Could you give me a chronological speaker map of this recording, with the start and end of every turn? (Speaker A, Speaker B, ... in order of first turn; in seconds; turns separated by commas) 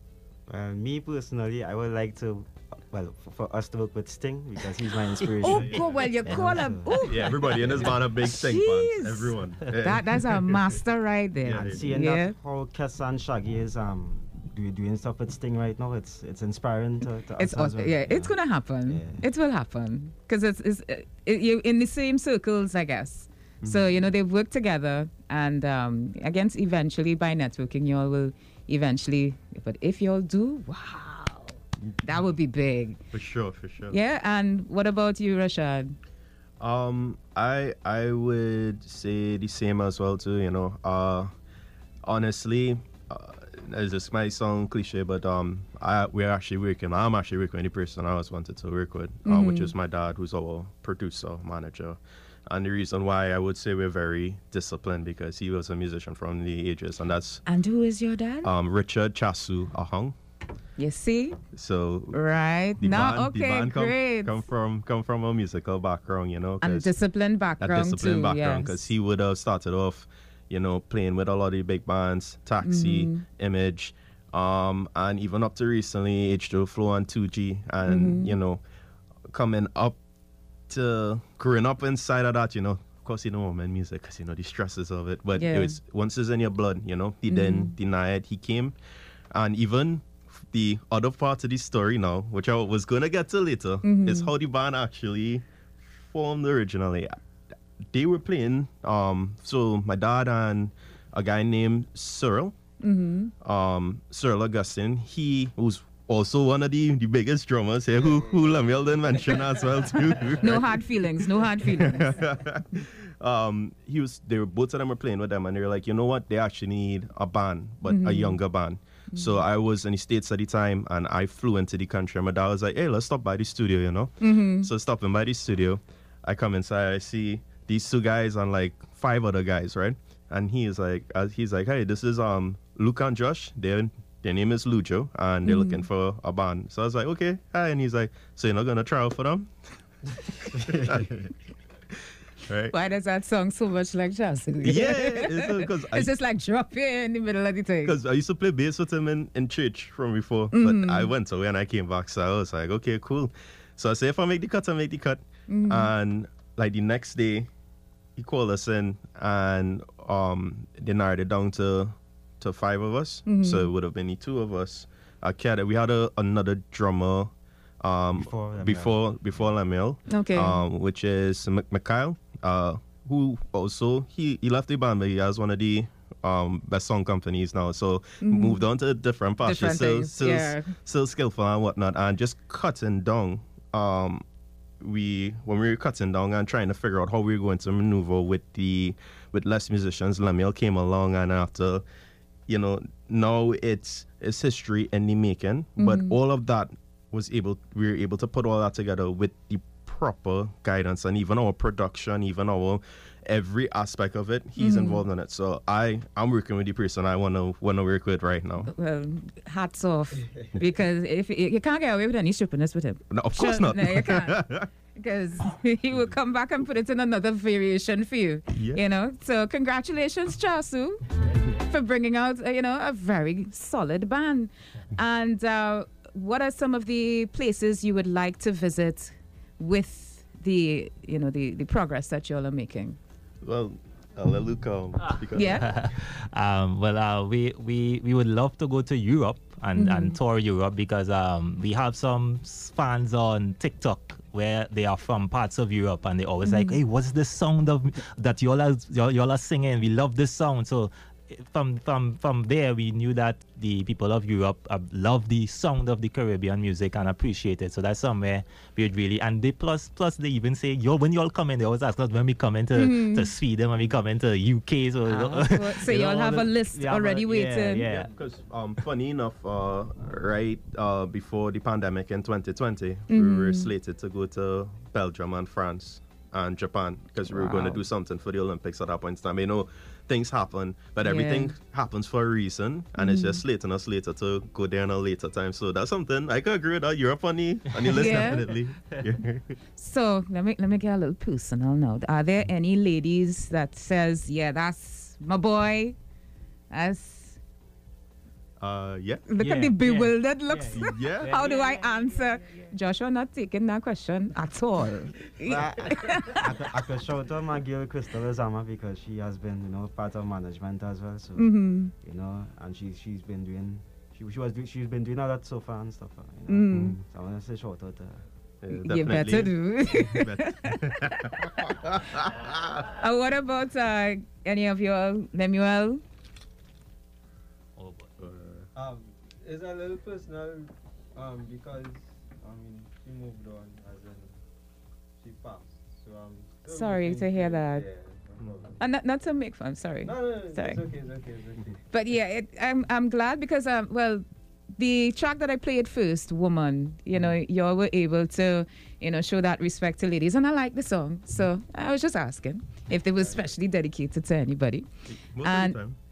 Speaker A: 0.5-8.0, Speaker B: 5.4-7.4, Speaker C: 5.5-5.8, Speaker C: 7.0-10.6, Speaker B: 8.2-12.3, Speaker C: 11.4-11.8, Speaker A: 11.4-19.2, Speaker B: 17.4-33.0, Speaker C: 23.6-24.0, Speaker C: 33.1-34.0, Speaker B: 33.9-35.9, Speaker C: 36.6-41.3, Speaker C: 42.0-57.4, Speaker B: 49.2-49.7, Speaker B: 57.5-58.5, Speaker C: 58.4-60.1, Speaker B: 60.8-61.4, Speaker C: 61.5-62.2, Speaker B: 62.1-64.4, Speaker C: 62.8-66.9, Speaker B: 66.6-68.9, Speaker C: 67.6-78.6, Speaker B: 72.6-73.2, Speaker B: 77.8-78.3, Speaker C: 79.3-80.0, Speaker C: 80.7-88.8, Speaker B: 85.4-85.8, Speaker B: 87.3-87.7, Speaker C: 89.3-95.5, Speaker B: 93.8-94.3, Speaker C: 96.0-97.2, Speaker C: 97.9-102.5, Speaker B: 102.8-103.3, Speaker C: 103.4-139.5, Speaker B: 110.4-112.2, Speaker B: 117.9-118.4, Speaker B: 119.1-119.4, Speaker B: 124.2-124.7, Speaker B: 135.4-135.8, Speaker C: 140.4-141.3, Speaker C: 142.4-142.7, Speaker B: 142.7-147.9, Speaker C: 144.6-146.1, Speaker C: 147.8-157.5, Speaker B: 150.5-151.1, Speaker B: 155.5-155.9, Speaker C: 158.2-184.2, Speaker B: 163.3-163.7, Speaker A: 168.2-169.0, Speaker B: 170.1-170.6, Speaker B: 178.2-178.6, Speaker B: 179.4-180.7, Speaker C: 184.8-191.8, Speaker C: 192.5-208.7, Speaker B: 195.8-196.2, Speaker B: 204.6-205.0, Speaker B: 208.7-233.0, Speaker C: 213.1-214.7, Speaker C: 218.5-218.8, Speaker C: 233.4-235.7, Speaker B: 235.3-235.7, Speaker D: 235.6-268.1, Speaker B: 239.8-240.2, Speaker B: 246.4-246.8, Speaker B: 262.8-263.3, Speaker B: 265.1-267.8, Speaker C: 267.8-289.5, Speaker B: 273.1-273.7, Speaker B: 277.3-277.8, Speaker B: 281.0-281.5, Speaker B: 283.0-283.4, Speaker B: 287.9-288.5, Speaker B: 289.8-295.9, Speaker B: 296.7-297.4, Speaker C: 298.6-299.2, Speaker B: 299.3-306.5, Speaker D: 299.4-301.8, Speaker C: 300.7-301.3, Speaker A: 305.4-318.2, Speaker B: 311.4-311.9, Speaker B: 316.5-316.9, Speaker C: 318.6-322.8, Speaker B: 318.7-321.4, Speaker B: 322.9-326.0, Speaker D: 327.8-328.1, Speaker C: 328.2-328.7, Speaker E: 328.7-334.3, Speaker E: 335.2-338.8, Speaker B: 336.7-337.8, Speaker B: 338.8-340.8, Speaker E: 340.0-341.8, Speaker B: 341.9-344.2, Speaker B: 344.8-354.8, Speaker C: 355.1-355.9, Speaker B: 355.4-355.8